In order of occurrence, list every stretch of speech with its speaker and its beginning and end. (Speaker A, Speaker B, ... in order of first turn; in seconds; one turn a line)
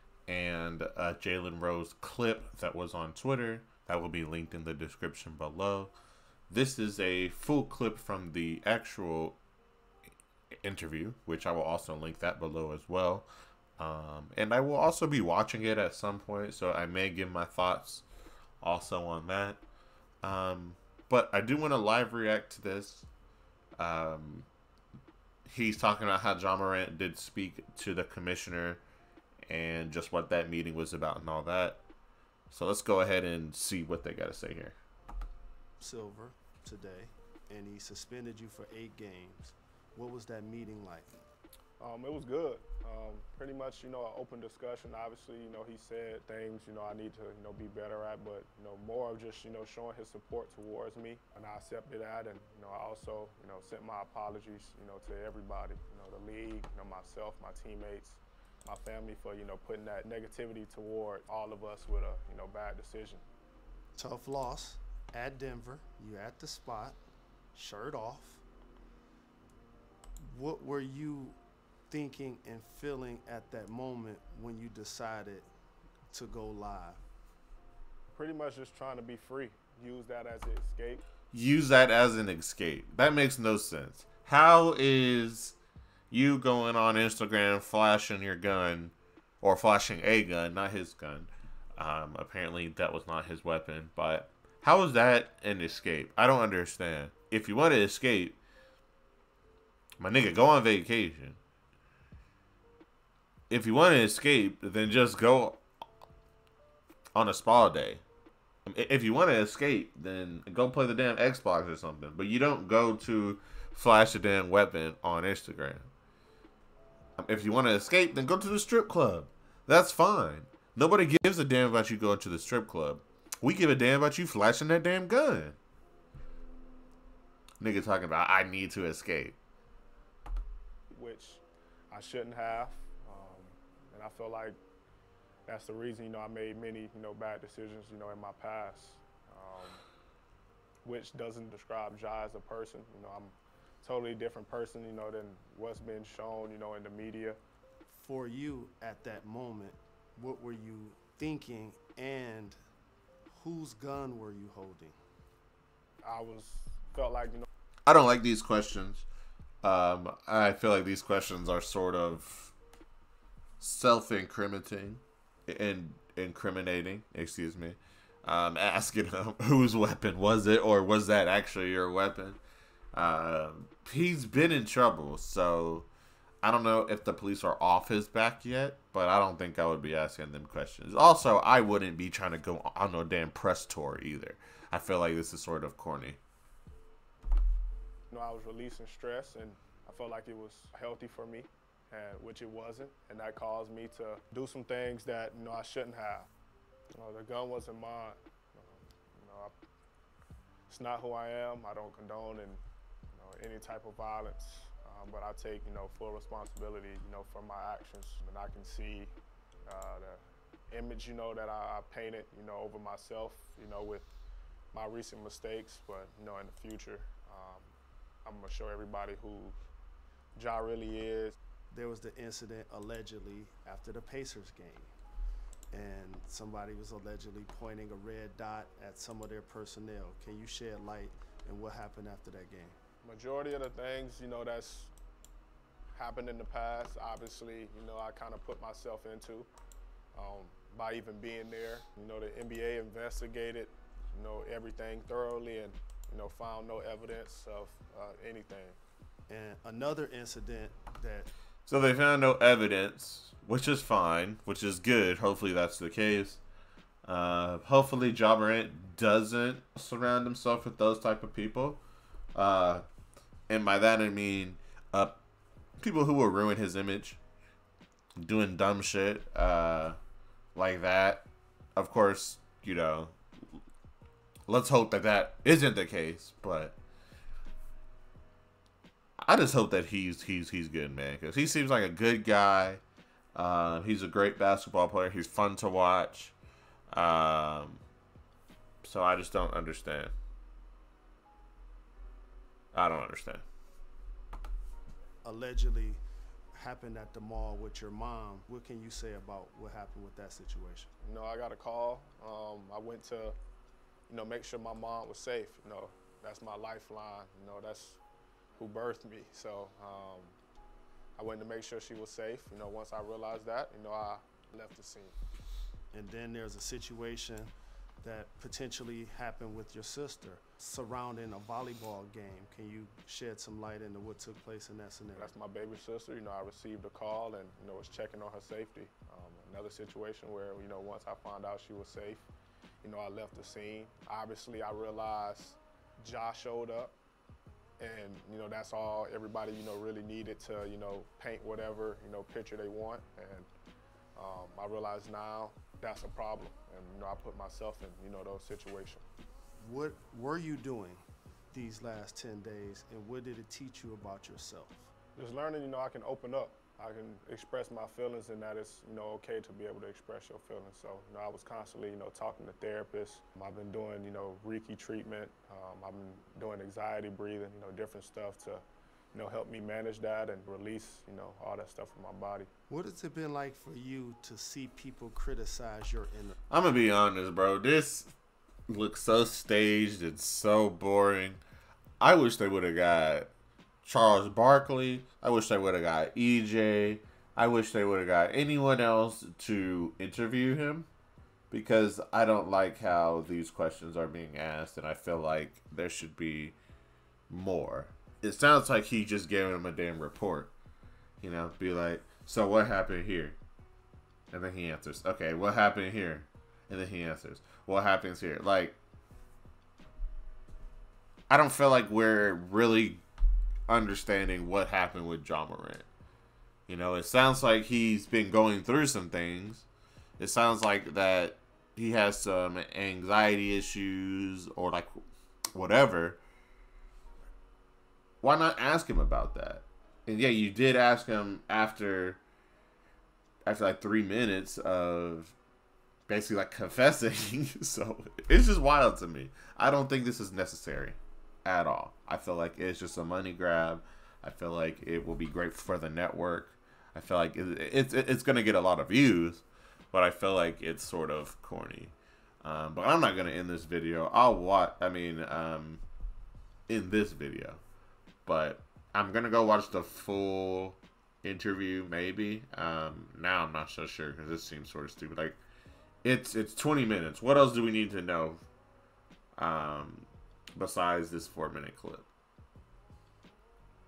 Speaker A: 0.3-5.9
Speaker A: 6.5-9.4
Speaker A: 10.6-13.3
Speaker A: 13.8-18.1
Speaker A: 18.6-19.6
Speaker A: 20.2-23.1
Speaker A: 23.8-24.5
Speaker A: 25.5-28.8
Speaker A: 29.5-31.8
Speaker A: 32.5-34.8
Speaker B: 35.8-41.1
Speaker C: 41.8-63.2
Speaker B: 64.0-67.0
Speaker B: 67.5-68.4
Speaker B: 70.2-75.5
Speaker B: 76.1-77.0
Speaker C: 78.1-81.0
Speaker A: 81.3-85.6
Speaker A: 86.1-98.4
Speaker A: 100.0-101.4
Speaker A: 103.5-105.6
Speaker A: 107.2-108.0
Speaker A: 108.7-115.9
Speaker A: 117.2-125.6
Speaker A: 127.6-129.4
Speaker C: 130.9-134.6
Speaker C: 135.5-139.8
Speaker C: 140.8-147.4
Speaker B: 147.9-152.6
Speaker B: 153.3-155.0
Speaker C: 156.0-157.5
Speaker A: 157.9-159.1
Speaker A: 159.6-162.5
Speaker A: 163.6-172.4
Speaker A: 172.9-175.9
Speaker A: 176.4-186.2
Speaker C: 188.1-196.3
Speaker C: 197.0-199.5
Speaker C: 200.7-202.6
Speaker C: 203.1-209.1
Speaker C: 209.7-214.1
Speaker C: 214.7-219.6
Speaker C: 220.4-221.4
Speaker B: 221.7-224.9
Speaker B: 225.7-232.8
Speaker C: 233.0-234.9
Speaker C: 235.9-239.5
Speaker C: 240.1-248.8
Speaker B: 249.3-251.3
Speaker A: 251.7-256.4
Speaker A: 257.1-261.8
Speaker A: 262.4-262.9
Speaker A: 263.5-265.2
Speaker A: 265.8-267.2
Speaker A: 268.2-270.0
Speaker A: 270.6-273.2
Speaker A: 274.5-276.8
Speaker A: 279.2-282.8
Speaker A: 283.4-286.4
Speaker A: 286.9-287.8
Speaker A: 288.8-290.1
Speaker A: 292.7-293.4
Speaker B: 295.2-296.0
Speaker B: 296.5-300.9
Speaker C: 301.0-303.4
Speaker C: 304.1-308.0
Speaker C: 308.6-310.4
Speaker C: 311.2-315.1
Speaker B: 315.9-325.3
Speaker C: 325.1-332.3
Speaker C: 332.8-336.9
Speaker C: 337.8-343.5
Speaker C: 344.2-349.0
Speaker B: 349.6-354.9
Speaker C: 355.1-372.5
Speaker B: 372.7-376.3
Speaker A: 376.5-378.1
Speaker A: 378.7-381.4
Speaker A: 382.0-383.3
Speaker A: 383.8-390.9
Speaker A: 391.5-396.6
Speaker A: 397.3-400.5
Speaker A: 401.2-403.4
Speaker A: 404.3-408.8
Speaker A: 411.3-413.0
Speaker A: 413.7-415.9
Speaker A: 416.7-419.7
Speaker A: 420.2-425.0
Speaker A: 425.6-426.2
Speaker A: 428.2-432.2
Speaker A: 433.5-435.4
Speaker A: 436.1-455.8
Speaker A: 456.7-457.6
Speaker A: 458.3-465.4
Speaker A: 466.0-468.4
Speaker A: 469.4-472.1